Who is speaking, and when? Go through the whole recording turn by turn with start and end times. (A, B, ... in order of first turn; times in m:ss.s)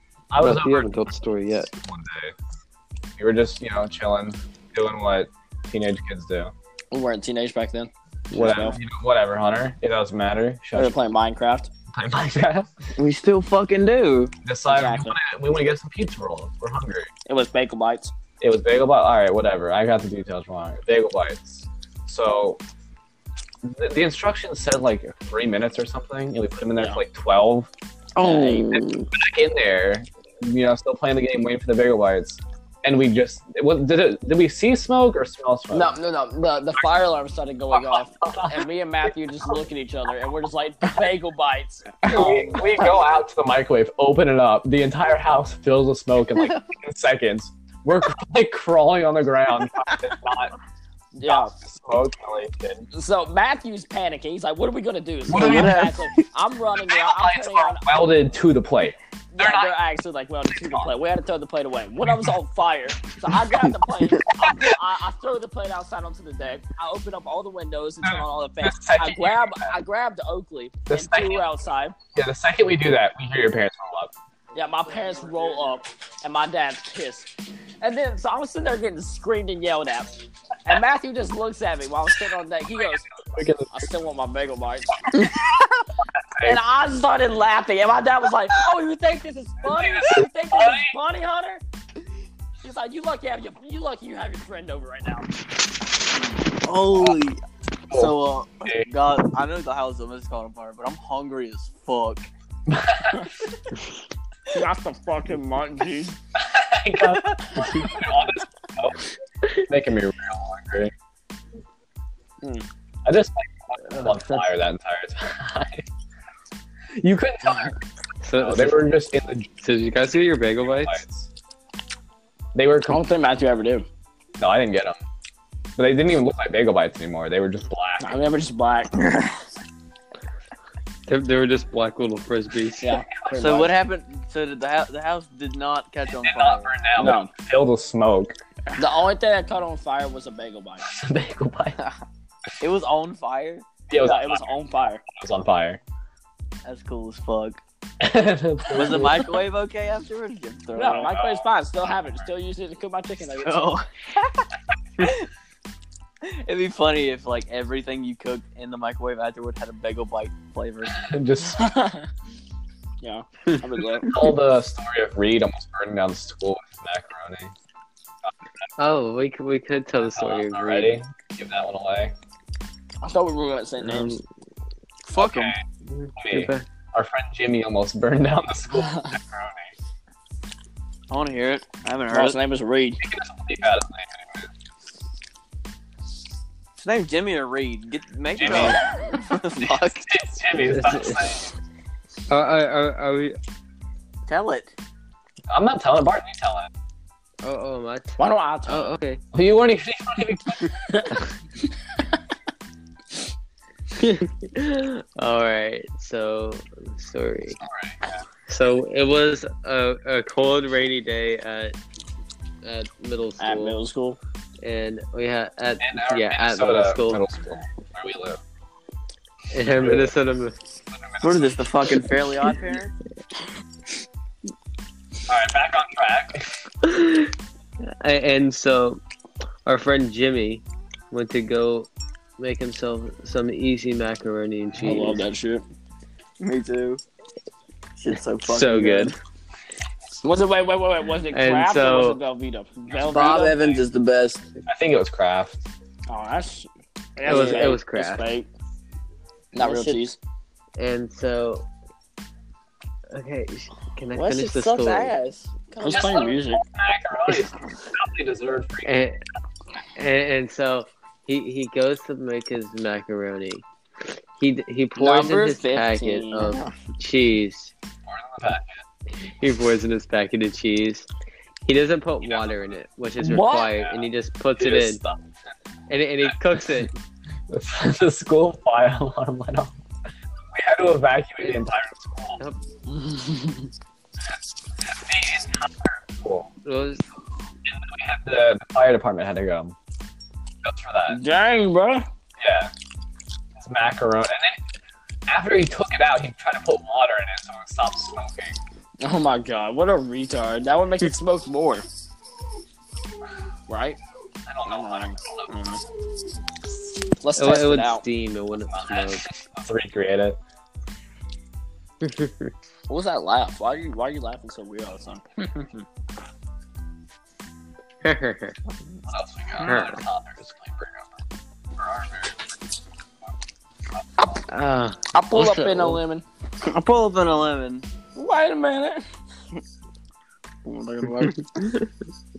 0:00.3-0:01.0 A
0:00.4-0:01.7 B
0:01.7-0:02.3 A
0:03.2-0:06.5 A
0:06.9-0:08.8 C
0:08.3-0:11.0 A
0:10.8-0:11.7 C
0:11.9-0:12.7 A
0:13.0-0:14.3 D
0:14.4-0:17.1 A
0:14.7-0:15.2 C
0:17.3-0:18.1 C
0:18.4-0:22.6 A
0:23.6-0:27.7 A
0:26.8-0:27.0 C
0:28.2-0:29.1 D
0:28.2-0:28.8 C
0:29.1-0:36.0 A
0:35.7-0:42.7 C
0:37.7-0:38.6 A
0:42.0-0:50.6 A
0:51.2-0:51.5 C
0:51.3-0:52.9 A
0:52.9-0:57.9 C
0:55.3-0:56.0 A
0:55.3-0:56.2 D
0:56.8-0:59.8 A
0:59.3-1:12.0 C
1:00.6-1:00.9 A
1:02.0-1:02.3 A
1:08.0-1:09.7 A
1:10.9-1:11.4 A
1:12.2-1:14.1 A
1:14.6-1:17.3 C
1:17.8-1:20.1 C
1:20.7-1:23.1 C
1:22.6-1:23.9 A
1:23.7-1:25.1 C
1:26.2-1:26.6 A
1:26.4-1:31.6 C
1:29.6-1:31.0 A
1:32.6-1:35.3 C
1:36.6-1:42.3 D
1:37.9-1:38.9 A
1:42.7-1:43.3 A
1:44.5-1:46.2 C
1:46.4-1:49.0 A
1:49.6-1:50.9 A
1:53.0-1:55.9 A
1:53.9-1:54.4 B
1:56.9-1:57.8 A
1:58.2-1:59.0 B
1:58.4-1:59.5 A
1:59.6-2:01.0 B
2:00.6-2:01.3 A
2:02.5-2:03.0 A
2:02.9-2:03.9 C
2:04.4-2:05.0 A
2:05.8-2:08.2 A
2:08.0-2:09.3 C
2:11.1-2:13.0 B
2:12.8-2:13.7 C
2:13.4-2:16.7 D
2:16.1-2:18.4 A
2:17.0-2:17.3 C
2:18.8-2:20.8 C
2:20.9-2:21.8 A
2:22.6-2:23.6 D
2:23.9-2:25.8 A
2:24.0-2:25.0 C
2:26.6-2:27.6 D
2:28.0-2:29.3 A
2:28.8-2:31.1 D
2:30.8-2:33.8 C
2:31.1-2:31.4 A
2:33.4-2:34.5 D
2:35.0-2:35.3 D
2:36.2-2:41.1 D
2:41.0-2:41.8 A
2:41.6-2:42.1 C
2:43.0-2:44.1 C
2:44.0-2:47.5 A
2:48.8-2:51.0 B
2:50.0-2:52.1 A
2:53.0-2:54.2 C
2:53.8-2:54.2 B
2:55.0-2:55.5 D
2:55.2-2:55.6 A
2:55.9-2:56.7 B
2:56.2-2:59.7 A
3:01.1-3:02.4 D
3:02.1-3:03.0 C
3:03.0-3:04.5 A
3:06.8-3:10.1 D
3:08.4-3:08.8 A
3:10.1-3:11.5 A
3:10.6-3:11.4 B
3:12.3-3:13.4 B
3:14.3-3:14.7 D
3:15.5-3:16.7 A
3:17.4-3:19.2 B
3:18.2-3:19.0 C
3:19.3-3:21.1 A
3:24.0-3:27.6 B
3:27.7-3:28.0 A
3:28.5-3:31.7 B
3:32.6-3:33.8 B
3:33.4-3:34.2 C
3:34.6-3:37.2 B
3:35.8-3:38.4 A
3:39.5-3:40.6 B
3:39.8-3:40.1 A
3:40.9-3:41.7 A
3:41.2-3:42.9 D
3:45.3-3:46.5 A
3:46.8-3:49.0 B
3:49.7-3:55.2 B
3:54.8-3:55.6 C
3:56.4-3:57.0 D
3:58.0-3:59.2 D
3:58.4-3:59.2 B
4:00.2-4:03.8 C
4:01.3-4:02.2 B
4:03.0-4:04.4 D
4:04.7-4:05.6 A
4:06.1-4:08.5 C
4:07.2-4:08.3 B
4:09.5-4:10.2 C
4:09.6-4:10.0 D
4:10.8-4:11.7 B
4:13.1-4:15.2 B
4:14.1-4:16.3 D
4:15.8-4:16.6 C
4:15.9-4:18.9 A
4:18.8-4:19.2 B
4:20.0-4:23.6 B
4:24.4-4:27.7 B
4:25.0-4:26.6 C
4:28.1-4:28.8 A
4:29.3-4:31.1 B
4:31.6-4:35.0 B
4:32.2-4:32.6 A
4:33.2-4:33.8 C
4:33.8-4:34.0 A
4:34.6-4:35.2 A
4:35.9-4:36.9 B
4:36.2-4:36.9 A
4:37.5-4:39.8 A
4:40.5-4:42.4 A
4:43.0-4:43.4 C
4:44.8-4:46.5 A
4:46.6-4:47.0 B
4:47.7-4:49.8 A
4:50.6-4:51.2 A
4:51.1-4:52.1 C
4:52.4-4:52.7 A
4:53.6-4:54.6 A
4:55.3-4:58.6 A
4:59.0-5:01.9 C
5:03.7-5:04.0 C
5:04.5-5:05.8 A
5:04.7-5:05.8 C
5:07.2-5:08.0 C
5:07.4-5:09.3 B
5:08.7-5:10.4 A
5:12.0-5:12.5 B
5:12.9-5:15.8 C
5:18.0-5:18.6 B
5:19.1-5:21.1 A
5:19.6-5:20.0 B
5:21.8-5:22.4 A
5:24.5-5:26.0 B
5:25.1-5:26.2 C
5:26.6-5:27.9 D
5:28.2-5:29.1 C
5:30.7-5:31.5 D
5:31.6-5:31.9 B